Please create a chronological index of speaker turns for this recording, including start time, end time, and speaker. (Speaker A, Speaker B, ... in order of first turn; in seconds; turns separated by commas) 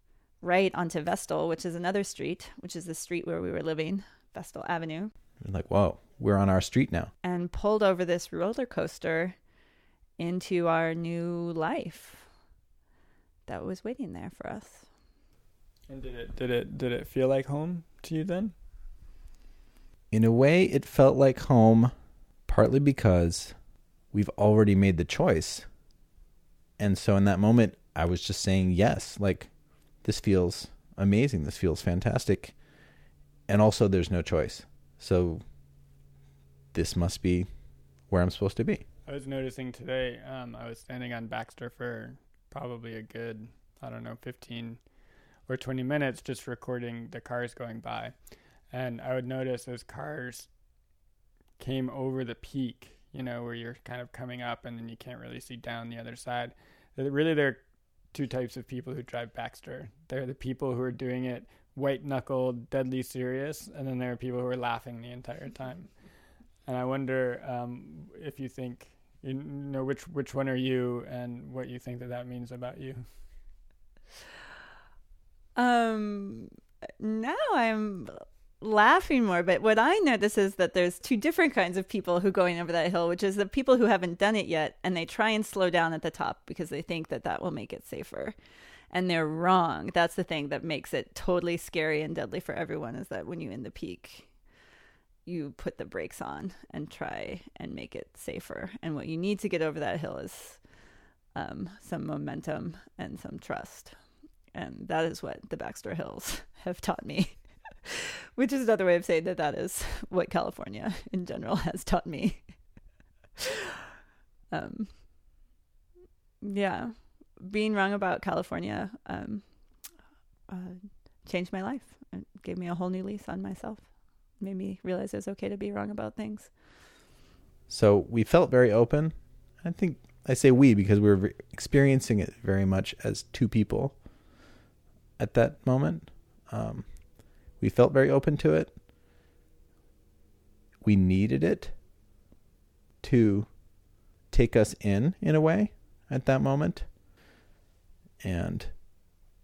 Speaker A: 0.4-5.1, Speaker B: 5.4-7.1, Speaker A: 7.2-9.4, Speaker A: 10.2-12.3, Speaker A: 13.4-14.9, Speaker C: 15.9-18.5, Speaker B: 20.1-21.9, Speaker B: 22.5-23.5, Speaker B: 24.1-25.6, Speaker B: 26.8-29.5, Speaker B: 30.0-32.6, Speaker B: 33.5-35.4, Speaker B: 36.7-37.5, Speaker B: 38.1-38.8, Speaker C: 39.1-44.8, Speaker C: 45.5-48.1, Speaker C: 48.7-50.5, Speaker C: 51.6-66.0, Speaker C: 66.7-73.1, Speaker A: 75.6-76.5, Speaker A: 77.0-88.3, Speaker A: 88.9-94.3, Speaker A: 95.2-100.6, Speaker A: 101.3-104.0, Speaker A: 104.5-112.5, Speaker A: 114.5-114.9, Speaker A: 116.4-119.5, Speaker A: 120.5-126.5, Speaker B: 127.7-134.0, Speaker B: 135.2-137.0, Speaker B: 137.5-138.8, Speaker B: 140.8-141.8, Speaker B: 143.0-143.6, Speaker B: 144.3-146.9, Speaker B: 148.2-148.7